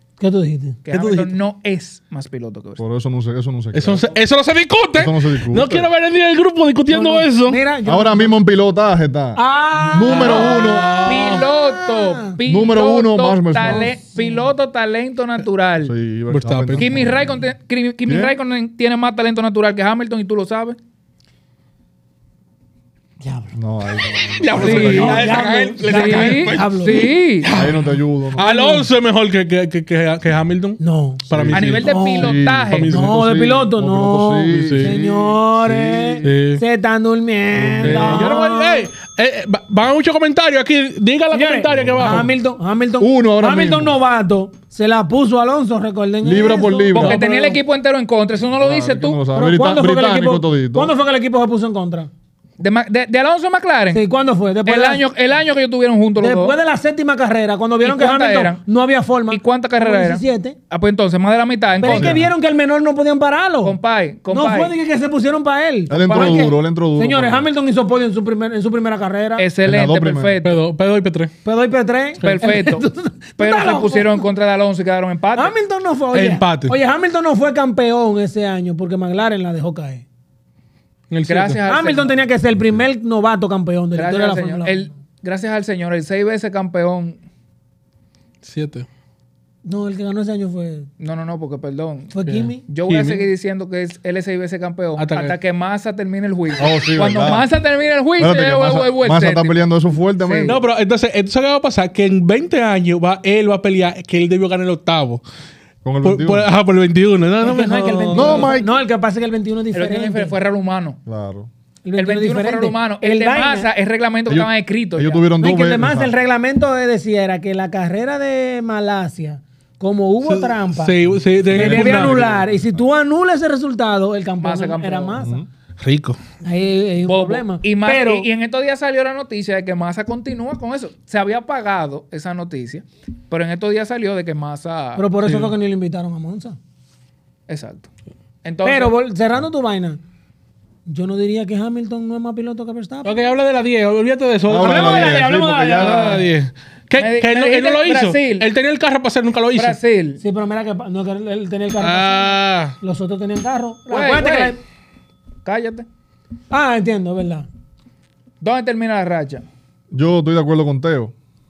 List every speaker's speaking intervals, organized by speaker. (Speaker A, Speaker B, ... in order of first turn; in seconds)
Speaker A: 0.2-0.8, 6.9-8.4, 9.4-12.4, 13.6-14.5, 23.2-23.5, 24.6-27.1, 28.4-28.9, 30.8-31.2, 31.8-32.3, 32.9-38.9, 41.3-47.6, 49.3-52.1, 53.9-55.0, 56.2-60.6, 61.8-63.8, 64.3-69.5, 71.5-74.2, 75.3-80.0, 81.7-84.9, 89.7-90.9, 92.1-92.6, 107.4-110.3, 111.8-113.7, 115.4-121.0, 121.5-125.4, 126.4-128.3, 135.0-136.6, 138.6-140.0, 140.9-143.1, 144.6-146.2, 150.2-154.6, 156.5-157.5
Speaker B: 0.8-2.8, 10.1-15.9, 16.8-20.8, 24.5-27.5, 31.5-32.9, 46.9-49.2, 52.6-54.0, 54.6-56.6, 57.8-58.6, 59.3-62.2, 63.6-64.7, 66.0-66.5, 69.4-70.6, 72.2-72.8, 73.4-75.5, 81.3-82.2, 83.9-87.2, 91.0-92.1, 92.7-99.6, 100.2-100.6, 109.7-111.0, 112.0-115.2, 124.4-125.2, 127.1-135.1, 137.5-137.9, 138.4-138.9, 145.8-146.2, 147.0-148.5, 149.6-150.2, 153.9-154.6, 155.4-155.9, 158.4-159.4
Speaker C: 0.9-1.4, 3.7-7.6, 10.1-11.5, 16.3-17.1, 24.4-31.9, 32.7-33.2, 34.5-34.9, 36.2-36.6, 37.8-42.3, 70.4-71.3, 76.1-76.8, 81.1-81.6, 88.4-88.9, 92.2-93.3, 95.0-95.4, 100.5-105.2, 106.0-108.5, 120.3-122.2, 125.8-126.2, 135.2-135.5, 143.0-149.8, 151.8-152.8
Speaker D: 2.8-4.1, 5.0-5.9, 7.8-11.0, 12.4-13.9, 15.8-17.4, 18.1-18.3, 23.5-25.4, 27.5-28.5, 31.3-36.4, 37.5-38.4, 41.7-42.4, 43.0-44.0, 46.2-47.2, 48.6-50.9, 61.8-62.3, 65.9-67.5, 69.6-70.4, 96.6-97.5, 98.2-100.6, 105.8-106.5, 108.1-108.7, 111.1-111.5, 114.3-116.1, 121.4-122.8, 125.2-125.5, 144.5-146.2, 159.9-161.1